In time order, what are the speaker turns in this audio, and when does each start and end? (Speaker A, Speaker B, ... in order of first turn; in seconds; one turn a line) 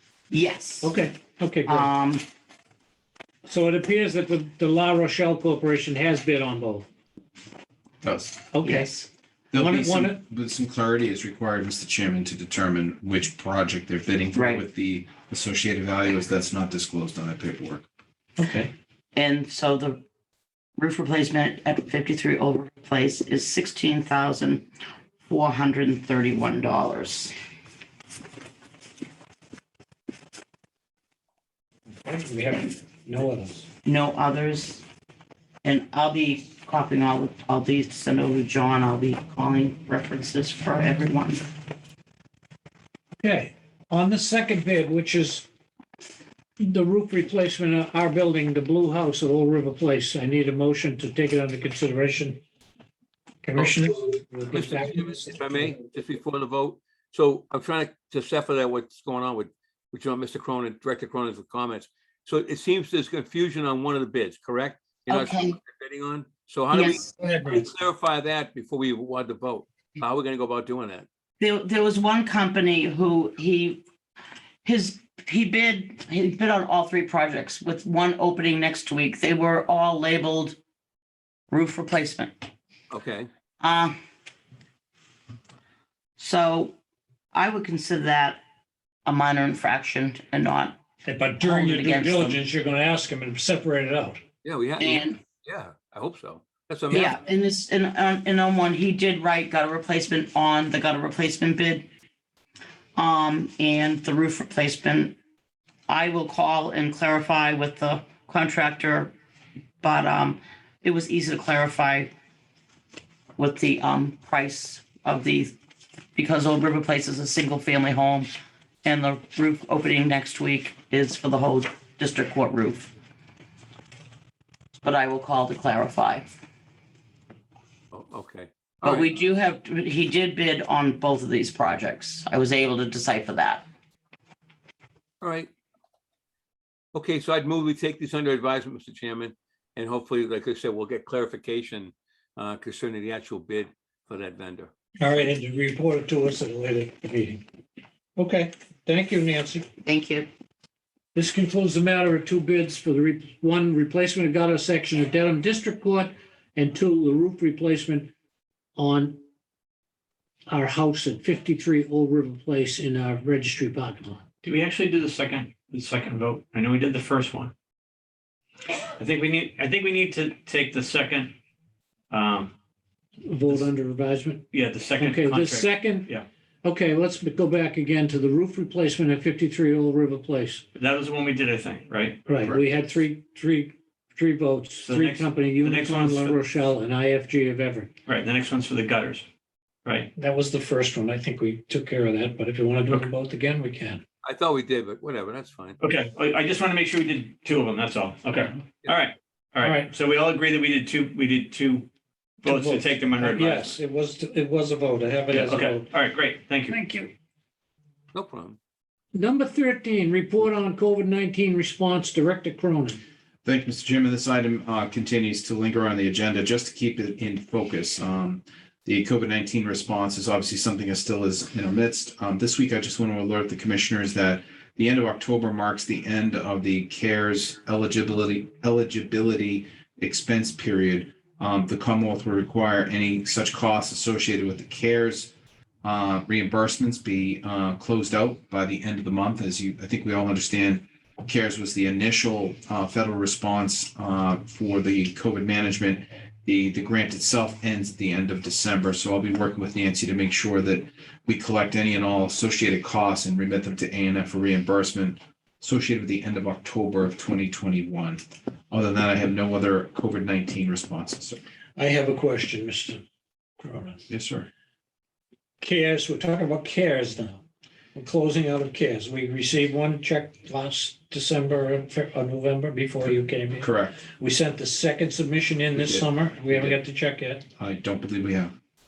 Speaker A: 0.3-0.9
Speaker B: 0.8-1.9
Speaker A: 1.6-2.2
Speaker B: 3.5-6.9
Speaker C: 8.0-8.4
Speaker B: 8.5-8.9
Speaker A: 8.6-9.9
Speaker C: 9.5-17.9
Speaker B: 9.7-10.2
Speaker A: 14.3-14.7
Speaker B: 18.4-18.7
Speaker A: 19.1-20.0
Speaker A: 20.8-24.7
Speaker A: 25.3-27.4
Speaker B: 31.9-33.7
Speaker A: 33.8-34.8
Speaker A: 35.6-41.4
Speaker B: 43.2-45.5
Speaker B: 46.6-52.4
Speaker B: 53.4-55.3
Speaker D: 54.5-71.0
Speaker A: 65.1-65.5
Speaker A: 66.7-67.1
Speaker B: 67.1-67.7
Speaker A: 71.4-73.8
Speaker A: 74.6-80.6
Speaker A: 81.5-82.3
Speaker D: 82.9-83.3
Speaker A: 83.6-83.9
Speaker A: 86.2-86.7
Speaker A: 87.3-88.4
Speaker A: 89.0-90.8
Speaker B: 91.0-94.2
Speaker A: 91.4-92.4
Speaker D: 94.4-97.2
Speaker A: 94.8-95.2
Speaker A: 96.9-101.8
Speaker A: 103.0-105.2
Speaker A: 105.9-109.1
Speaker A: 109.8-112.1
Speaker A: 113.4-115.5
Speaker A: 116.1-118.3
Speaker A: 118.8-122.9
Speaker A: 124.8-126.3
Speaker D: 127.9-129.2
Speaker A: 128.8-133.6
Speaker D: 135.2-135.5
Speaker D: 136.9-144.7
Speaker B: 145.0-147.4
Speaker B: 148.2-149.7
Speaker A: 149.8-150.3
Speaker B: 151.1-158.1
Speaker B: 158.8-159.2
Speaker B: 160.5-164.2
Speaker E: 164.4-167.5
Speaker E: 169.0-171.3
Speaker E: 172.1-172.5
Speaker B: 173.2-174.4
Speaker E: 174.5-176.2
Speaker B: 175.0-176.1
Speaker B: 176.6-180.6
Speaker E: 180.8-182.2
Speaker B: 182.2-187.9
Speaker E: 184.8-186.4
Speaker E: 188.1-189.2
Speaker E: 189.8-190.1
Speaker B: 190.2-194.0
Speaker D: 194.2-195.8
Speaker E: 195.8-201.9
Speaker B: 199.6-199.9
Speaker E: 202.4-203.8
Speaker B: 202.4-205.9
Speaker E: 205.3-206.8
Speaker B: 206.7-207.1
Speaker D: 208.1-208.6
Speaker B: 209.1-213.0
Speaker C: 213.4-261.4
Speaker B: 261.8-263.0
Speaker B: 263.6-264.1
Speaker C: 264.1-264.5
Speaker B: 265.6-267.4
Speaker B: 267.9-277.4
Speaker C: 273.0-274.0
Speaker C: 275.8-276.8
Speaker C: 277.6-278.5